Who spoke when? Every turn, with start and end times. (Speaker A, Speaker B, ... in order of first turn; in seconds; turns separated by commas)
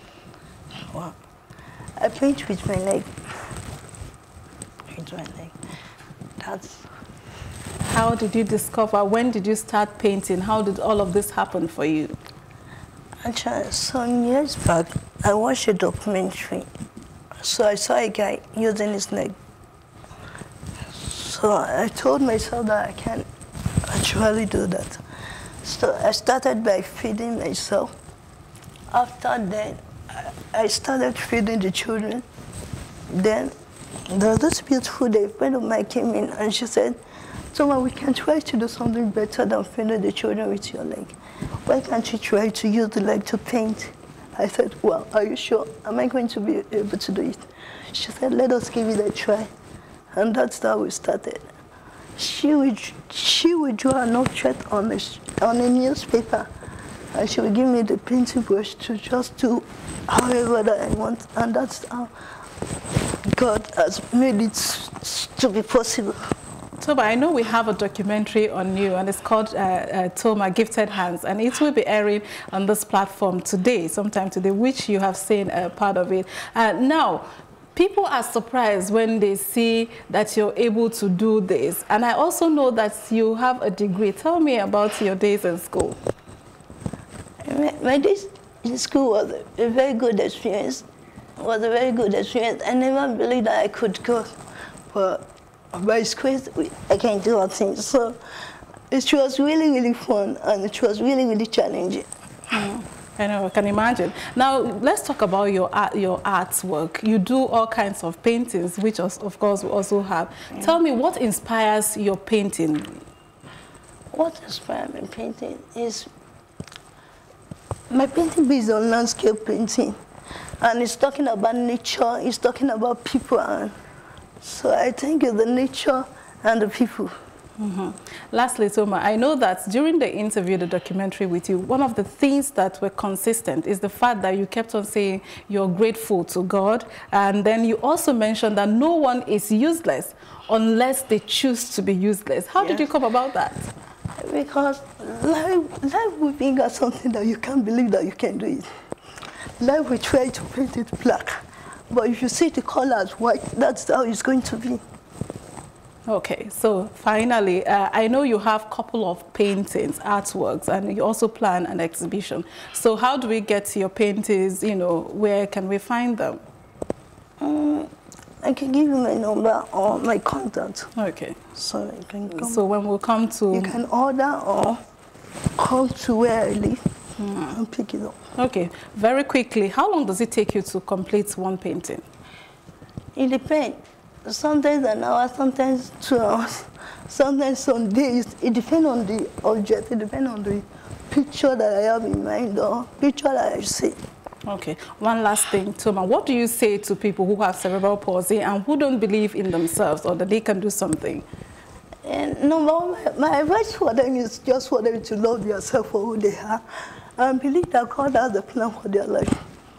Speaker A: 0.9-1.2, Speaker A: 2.0-3.1, Speaker A: 4.9-5.5, Speaker A: 6.4-6.9, Speaker B: 7.8-12.2, Speaker A: 13.2-16.7, Speaker A: 17.4-19.4, Speaker A: 20.9-23.3, Speaker A: 23.9-25.0, Speaker A: 25.6-27.9, Speaker A: 28.9-32.2, Speaker A: 33.1-33.5, Speaker A: 34.1-37.0, Speaker A: 37.5-49.5, Speaker A: 50.1-51.5, Speaker A: 52.2-56.5, Speaker A: 57.1-62.1, Speaker A: 63.2-66.2, Speaker B: 66.8-86.0, Speaker A: 87.4-90.9, Speaker A: 91.4-94.3, Speaker A: 94.9-98.2, Speaker A: 98.9-102.1, Speaker B: 102.5-113.0, Speaker A: 114.1-116.1, Speaker A: 117.9-120.0, Speaker A: 120.6-123.8, Speaker A: 124.4-127.2, Speaker B: 127.6-143.7, Speaker A: 144.2-148.7, Speaker A: 149.6-154.8, Speaker B: 156.1-166.4, Speaker A: 167.4-167.9, Speaker A: 168.4-170.9, Speaker B: 171.0-171.4, Speaker A: 171.5-172.6, Speaker B: 172.3-173.8, Speaker A: 173.5-174.8, Speaker A: 175.6-176.8, Speaker B: 177.2-177.6, Speaker A: 177.5-178.2, Speaker B: 178.4-182.1, Speaker A: 183.2-194.0, Speaker B: 194.5-201.3, Speaker A: 202.0-206.6, Speaker A: 207.2-209.4